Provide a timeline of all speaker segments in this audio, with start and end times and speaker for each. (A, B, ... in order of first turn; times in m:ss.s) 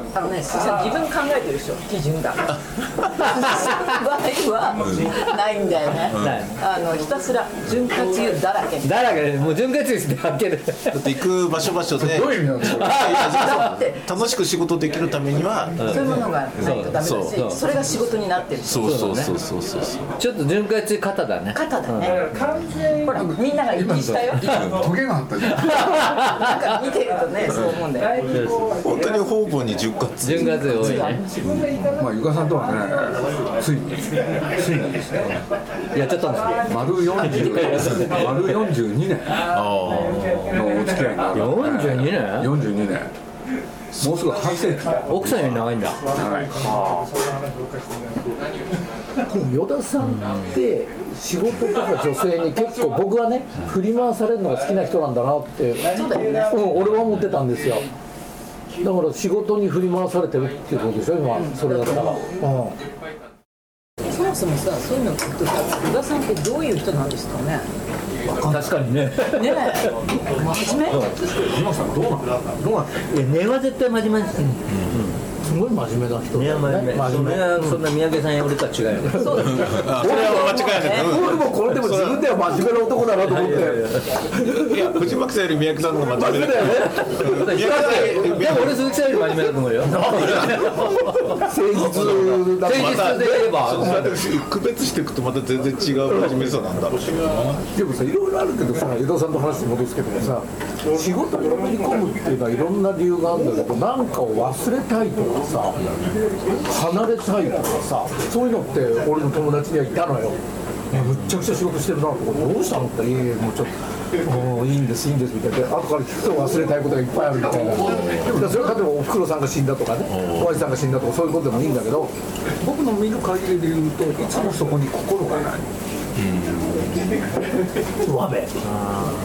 0:00.1-0:09.1 A
0:04.8-0:05.1 B
0:06.0-0:06.5 B
0:06.1-0:06.6 C
0:08.8-0:11.1 C
0:10.9-0:17.4 B
0:12.0-0:12.9 D
0:12.7-0:13.6 C
0:13.0-0:14.3 A
0:15.8-0:17.6 C
0:15.8-0:19.0 A
0:18.6-0:20.0 B
0:18.8-0:19.3 C
0:20.2-0:22.2 C
0:21.5-0:22.3 A
0:23.0-0:24.7 A
0:23.0-0:25.9 D
0:25.8-0:26.5 C
0:25.8-0:28.2 A
0:28.8-0:31.0 B
0:30.2-0:31.2 C
0:30.4-0:31.8 A
0:31.9-0:35.4 D
0:35.9-0:36.6 C
0:36.6-0:39.6 D
0:37.2-0:38.3 C
0:39.4-0:40.5 B
0:40.2-0:40.5 C
0:40.5-0:43.1 D
0:41.3-0:42.5 C
0:44.0-0:46.7 D
0:45.1-0:46.0 C
0:49.2-0:57.9 E
0:50.1-0:50.5 C
0:55.8-0:56.7 A
0:58.8-1:02.8 E
1:01.4-1:02.2 A
1:04.0-1:07.7 A
1:08.3-1:09.8 C
1:09.2-1:11.1 A
1:11.3-1:13.1 D
1:13.1-1:15.2 C
1:15.4-1:17.8 E
1:16.3-1:19.3 C
1:19.1-1:25.0 E
1:19.2-1:21.2 A
1:19.5-1:22.4 B
1:23.2-1:24.1 C
1:24.4-1:28.8 B
1:26.1-1:28.1 E
1:26.7-1:34.1 C
1:29.9-1:34.1 E
1:31.9-1:37.6 B
1:37.7-1:45.8 E
1:45.8-1:46.1 B
1:46.6-1:50.4 E
1:50.9-2:02.1 E
1:57.9-1:58.4 B
2:00.1-2:00.6 B
2:02.6-2:05.7 D
2:06.2-2:07.1 B
2:08.0-2:08.6 E